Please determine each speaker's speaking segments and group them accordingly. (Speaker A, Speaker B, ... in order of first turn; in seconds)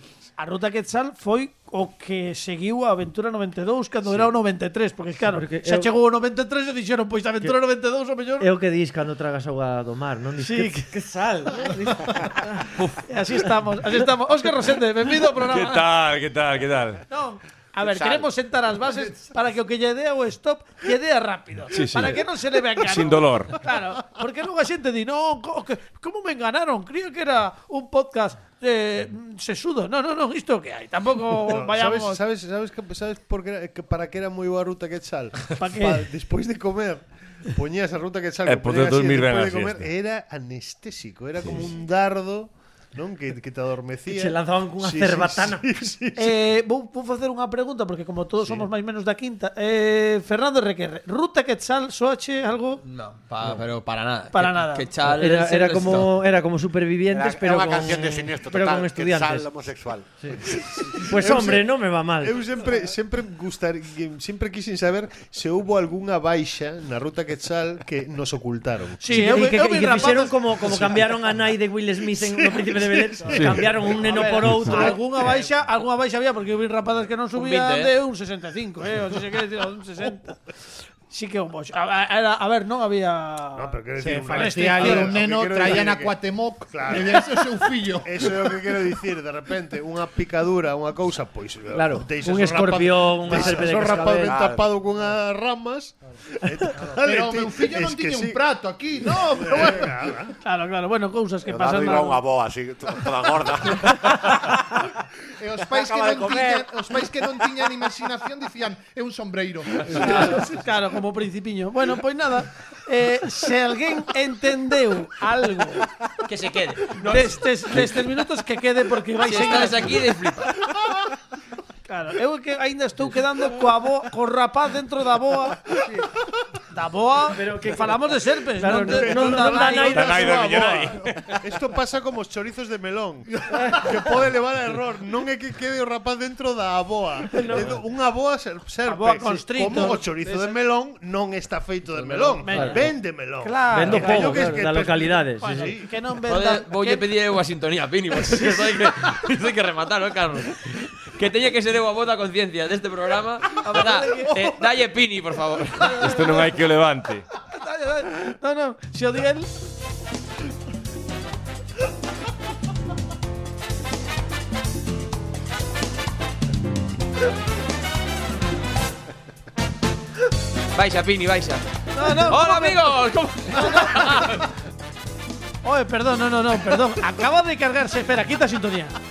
Speaker A: 0.4-8.5, 10.4-10.9, 13.0-15.8, 17.1-32.2, 35.6-36.0, 46.2-52.8, 54.3-54.9, 69.0-70.4, 73.2-80.4, 81.1-85.1, 99.1-99.9, 100.4-102.2, 110.0-115.9, 117.0-120.0, 121.9-125.7, 126.7-130.1, 138.8-140.6, 142.0-144.6, 145.4-147.1, 153.6-154.5, 155.8-156.2, 157.5-159.5, 171.9-172.9, 173.5-174.4, 175.6-179.0
Speaker B: 5.2-5.9, 8.4-12.8, 44.1-45.6, 55.0-59.5, 60.2-62.4, 69.1-75.0, 91.7-94.4, 127.3-130.4, 133.6-134.1, 137.3-137.8, 142.4-142.9, 143.7-145.8
Speaker C: 15.4-17.0, 21.7-23.6, 38.5-39.9, 73.3-73.6, 129.9-131.3, 156.0-157.2
Speaker D: 31.4-46.3, 60.5-69.4, 70.7-71.0, 72.1-75.3, 83.5-86.2, 86.7-98.4, 99.0-100.3, 109.8-110.5, 128.9-145.9
Speaker E: 52.8-56.1, 77.3-77.9, 105.8-106.6, 116.2-117.8, 119.2-120.6, 146.3-156.1, 170.7-174.4
Speaker F: 57.1-60.1, 94.2-94.7, 101.4-104.2
Speaker G: 84.0-88.8, 96.8-99.8, 105.3-110.4